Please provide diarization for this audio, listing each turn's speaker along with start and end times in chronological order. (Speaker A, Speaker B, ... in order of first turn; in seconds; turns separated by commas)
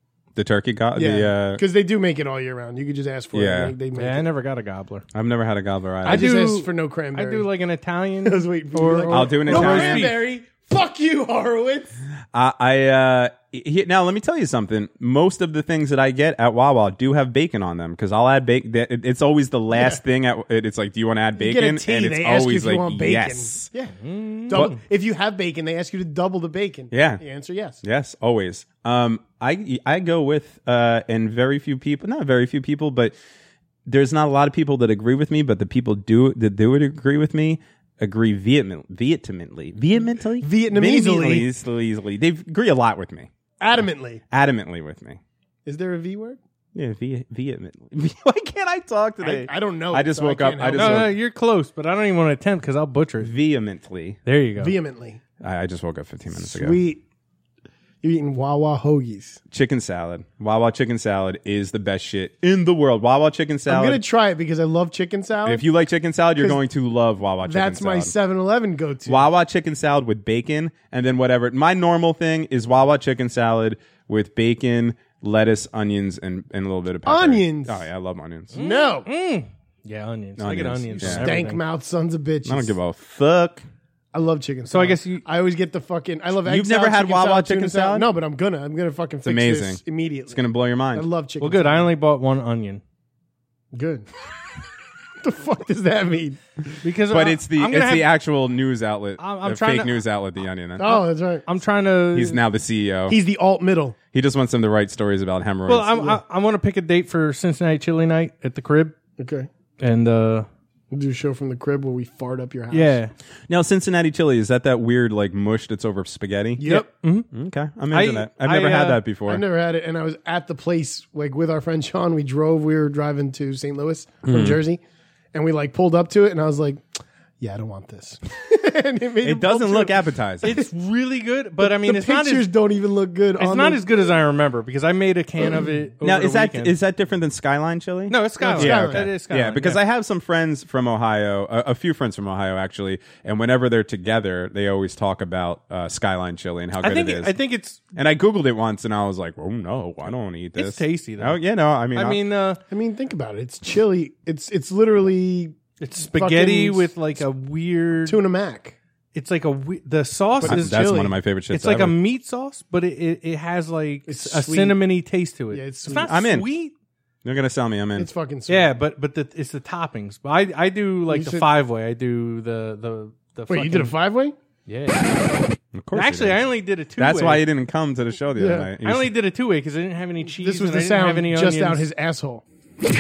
Speaker A: 0.4-1.6, Speaker B: 0.9-4.3, Speaker A: 3.3-3.8, Speaker C: 3.9-5.1, Speaker A: 5.1-6.3, Speaker C: 6.0-10.2, Speaker B: 6.0-7.5, Speaker B: 8.2-12.0, Speaker A: 9.1-10.1, Speaker A: 12.3-23.7, Speaker B: 19.8-20.0, Speaker B: 21.4-23.9, Speaker C: 24.0-24.8, Speaker B: 24.5-27.8, Speaker A: 26.9-27.2, Speaker A: 27.8-33.1, Speaker A: 33.9-43.3, Speaker B: 40.4-41.5, Speaker B: 43.6-44.2, Speaker A: 44.3-45.2, Speaker B: 45.6-46.4, Speaker A: 46.8-51.1, Speaker B: 49.2-51.1, Speaker C: 50.7-53.3, Speaker A: 53.2-54.2, Speaker C: 54.3-54.7, Speaker B: 54.6-55.2, Speaker A: 55.4-56.8, Speaker B: 56.3-57.0, Speaker B: 58.0-59.4, Speaker A: 59.5-64.0, Speaker B: 63.7-65.7, Speaker A: 65.4-68.1, Speaker B: 67.4-69.3, Speaker A: 69.1-78.5, Speaker B: 77.1-77.9, Speaker B: 78.5-79.1, Speaker C: 78.5-81.6, Speaker A: 80.4-81.3, Speaker B: 81.0-82.8, Speaker A: 82.4-83.7, Speaker B: 84.1-90.4, Speaker C: 84.7-85.2, Speaker A: 86.4-88.1, Speaker A: 89.2-91.1, Speaker B: 90.9-91.9, Speaker C: 91.4-92.8, Speaker B: 93.7-94.1, Speaker B: 95.2-96.4, Speaker C: 96.8-98.1, Speaker A: 97.1-100.8, Speaker C: 99.2-100.0, Speaker B: 100.8-101.4, Speaker C: 100.8-102.4, Speaker A: 102.1-103.2, Speaker B: 103.1-104.0, Speaker A: 104.1-106.1, Speaker C: 105.7-109.0, Speaker B: 109.2-109.5, Speaker C: 109.8-110.5, Speaker B: 110.9-113.0, Speaker C: 112.7-113.1, Speaker A: 113.5-116.7, Speaker B: 116.6-116.9, Speaker C: 116.6-117.3, Speaker A: 117.3-119.4, Speaker C: 117.9-119.0, Speaker B: 119.3-124.8, Speaker A: 124.2-124.6, Speaker B: 125.3-126.8, Speaker B: 127.4-130.7, Speaker A: 129.2-130.5, Speaker C: 130.4-132.5, Speaker B: 131.6-133.8, Speaker C: 133.4-136.7, Speaker A: 136.0-147.3, Speaker C: 138.1-139.8, Speaker B: 138.4-139.1, Speaker C: 146.8-147.8, Speaker A: 147.9-152.2, Speaker C: 150.6-151.4, Speaker C: 151.9-152.6, Speaker B: 152.7-156.9, Speaker C: 155.8-158.2, Speaker B: 158.1-158.8, Speaker C: 159.1-166.7, Speaker B: 160.4-161.1, Speaker A: 160.4-162.0, Speaker B: 164.1-164.8, Speaker B: 165.5-166.1, Speaker A: 166.1-166.5, Speaker A: 167.2-168.1, Speaker B: 167.9-168.7, Speaker C: 168.5-173.9, Speaker B: 171.1-171.5, Speaker B: 173.5-174.3, Speaker C: 174.7-175.2, Speaker A: 175.7-179.1, Speaker C: 175.9-177.4, Speaker B: 178.4-178.7, Speaker C: 178.8-181.8, Speaker B: 180.4-182.4